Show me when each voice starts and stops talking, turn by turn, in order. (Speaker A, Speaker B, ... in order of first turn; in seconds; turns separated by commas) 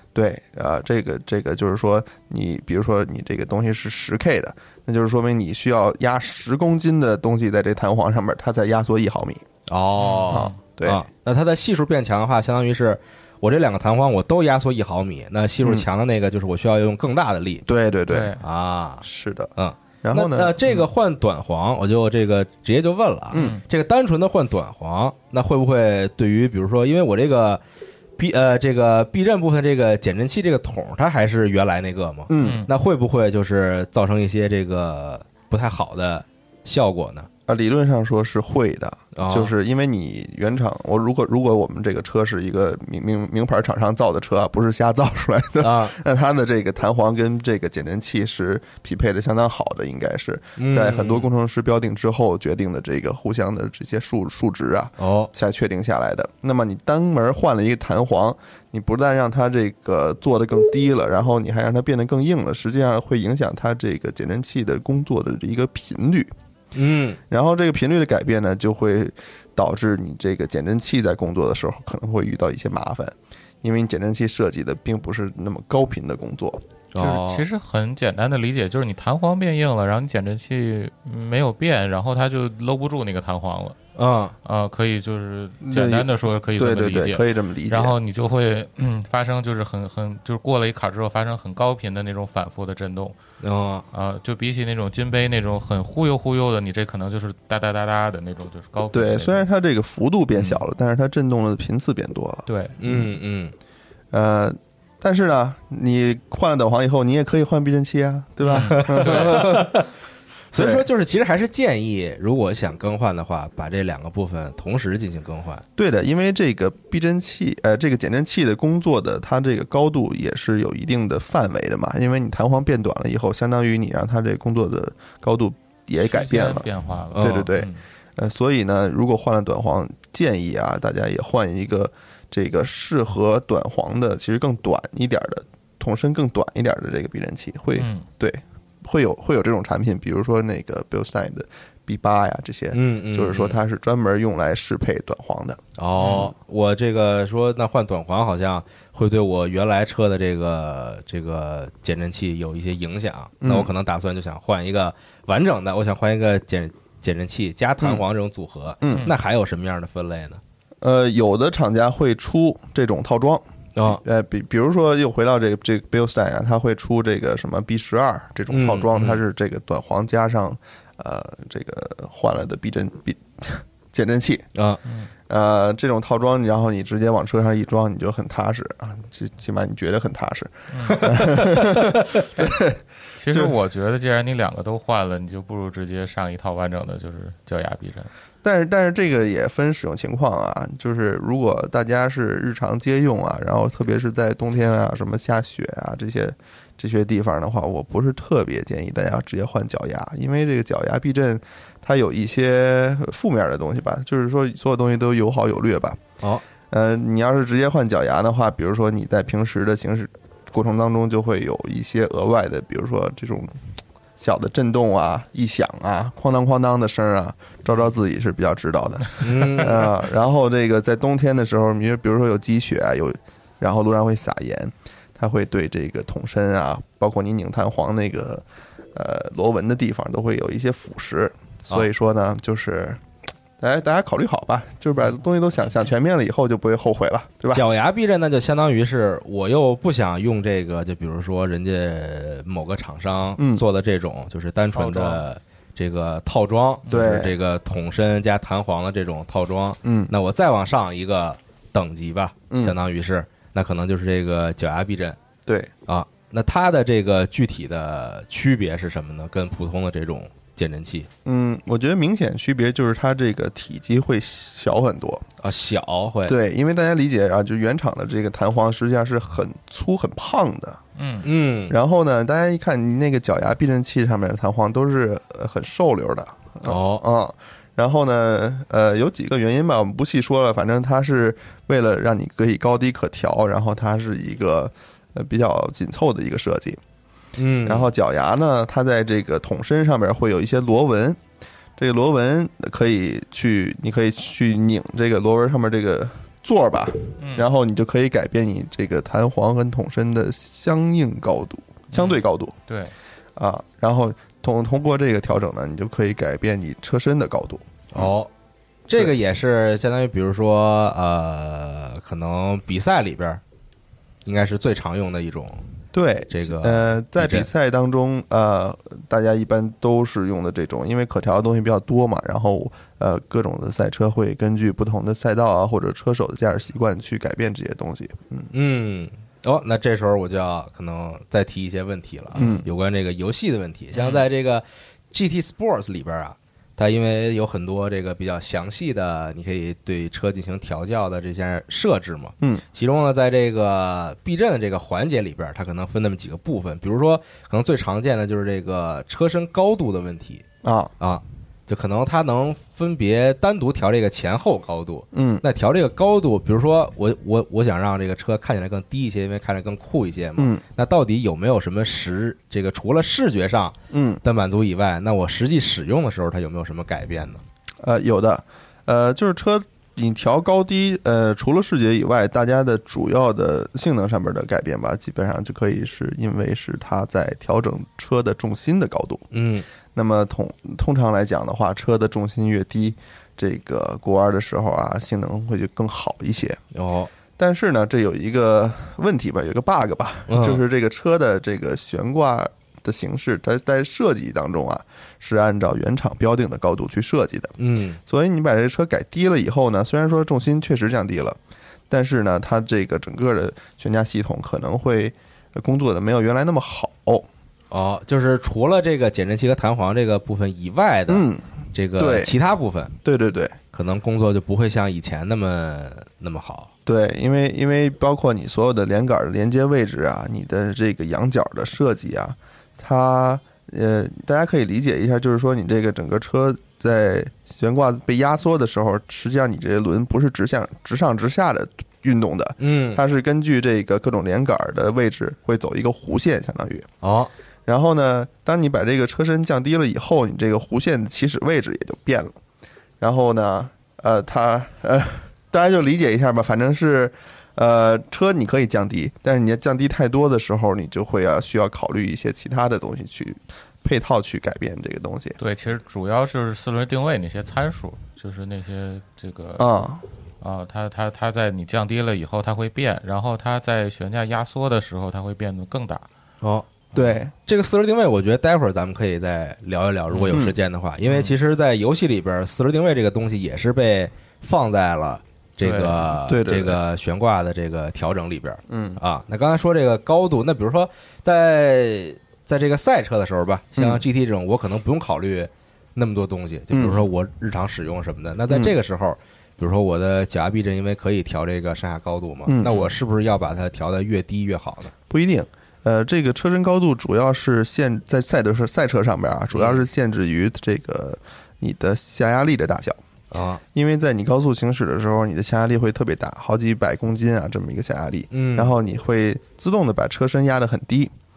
Speaker A: 0.1-9.4, Speaker B: 9.7-17.6, Speaker C: 10.0-10.6, Speaker A: 10.3-11.0, Speaker A: 17.6-18.4, Speaker C: 18.1-18.4, Speaker B: 18.4-19.0, Speaker A: 19.0-20.8, Speaker B: 19.6-27.6, Speaker A: 23.3-23.6, Speaker C: 23.3-23.6, Speaker B: 28.2-37.3, Speaker A: 32.3-32.6, Speaker C: 32.4-32.7, Speaker A: 37.5-66.3, Speaker B: 39.1-39.5, Speaker B: 45.6-46.0, Speaker B: 50.5-51.3, Speaker B: 55.0-55.3, Speaker B: 66.7-67.2, Speaker A: 67.3-76.6, Speaker B: 76.9-77.4, Speaker C: 77.0-83.8, Speaker B: 84.0-84.3, Speaker C: 84.4-93.2, Speaker A: 85.6-88.0, Speaker B: 93.4-93.8, Speaker C: 93.9-99.4, Speaker A: 98.9-103.0, Speaker C: 102.5-102.8, Speaker B: 102.8-103.5, Speaker A: 104.1-109.8, Speaker C: 108.4-109.5, Speaker B: 108.5-109.9, Speaker B: 110.5-115.6, Speaker A: 110.5-110.9, Speaker A: 115.8-145.6, Speaker C: 126.0-127.8, Speaker B: 127.1-127.5, Speaker C: 137.8-138.1, Speaker B: 142.7-143.6, Speaker B: 145.8-160.4, Speaker C: 146.0-146.3, Speaker A: 153.4-153.7, Speaker A: 158.8-159.1, Speaker A: 160.8-174.5, Speaker B: 163.8-164.0, Speaker B: 168.5-169.2, Speaker B: 174.5-174.8, Speaker C: 174.8-175.1, Speaker A: 175.3-182.8, Speaker C: 180.7-181.4, Speaker C: 182.3-182.6, Speaker C: 183.2-188.1, Speaker A: 188.4-206.0, Speaker A: 206.7-213.6, Speaker A: 214.2-233.0, Speaker B: 219.2-219.8, Speaker A: 233.6-237.7, Speaker B: 237.5-255.2, Speaker A: 243.4-243.6, Speaker C: 244.7-245.2, Speaker A: 246.9-247.3, Speaker A: 249.8-250.1, Speaker A: 252.5-252.8, Speaker A: 255.4-255.7, Speaker B: 255.9-261.1, Speaker A: 261.2-265.2, Speaker B: 265.4-266.3, Speaker A: 266.2-270.8, Speaker C: 270.9-271.3, Speaker B: 271.2-271.7, Speaker A: 271.7-286.8, Speaker B: 276.6-277.0, Speaker B: 287.4-287.9, Speaker A: 287.6-291.2, Speaker A: 291.8-302.5, Speaker C: 297.2-297.5, Speaker C: 301.9-302.9, Speaker A: 303.4-308.1, Speaker B: 307.9-308.3, Speaker B: 308.9-313.4, Speaker B: 314.2-315.6, Speaker A: 315.9-328.5, Speaker B: 316.3-317.5, Speaker B: 328.5-350.4, Speaker A: 332.4-332.6, Speaker C: 333.9-334.2, Speaker A: 350.6-350.9, Speaker B: 351.0-367.4, Speaker A: 355.1-355.4, Speaker A: 360.4-360.6, Speaker A: 363.9-364.2, Speaker A: 367.8-379.3, Speaker B: 379.3-379.6, Speaker A: 379.9-386.6, Speaker B: 386.7-387.1, Speaker A: 387.4-397.6, Speaker B: 390.3-390.6, Speaker B: 397.6-398.0, Speaker A: 398.1-401.4, Speaker A: 401.9-407.3, Speaker B: 407.7-412.9, Speaker A: 411.1-412.3, Speaker A: 413.0-413.6, Speaker B: 413.7-416.7, Speaker A: 416.9-436.9, Speaker B: 432.6-433.0, Speaker B: 437.0-437.3, Speaker A: 437.7-442.3, Speaker A: 443.0-455.4, Speaker C: 455.4-459.7, Speaker A: 459.6-460.0, Speaker C: 460.4-466.1, Speaker B: 466.4-466.7, Speaker A: 466.9-467.3, Speaker B: 467.4-494.9, Speaker C: 470.1-470.4, Speaker A: 470.3-470.6, Speaker C: 471.1-471.3, Speaker C: 475.6-476.1, Speaker A: 476.2-476.8, Speaker A: 478.7-479.0, Speaker A: 483.8-484.0, Speaker A: 486.7-487.0, Speaker A: 488.5-488.7, Speaker A: 492.5-492.9, Speaker A: 495.1-503.0, Speaker B: 499.5-499.8, Speaker B: 503.3-503.6, Speaker A: 503.7-511.1, Speaker B: 508.3-508.7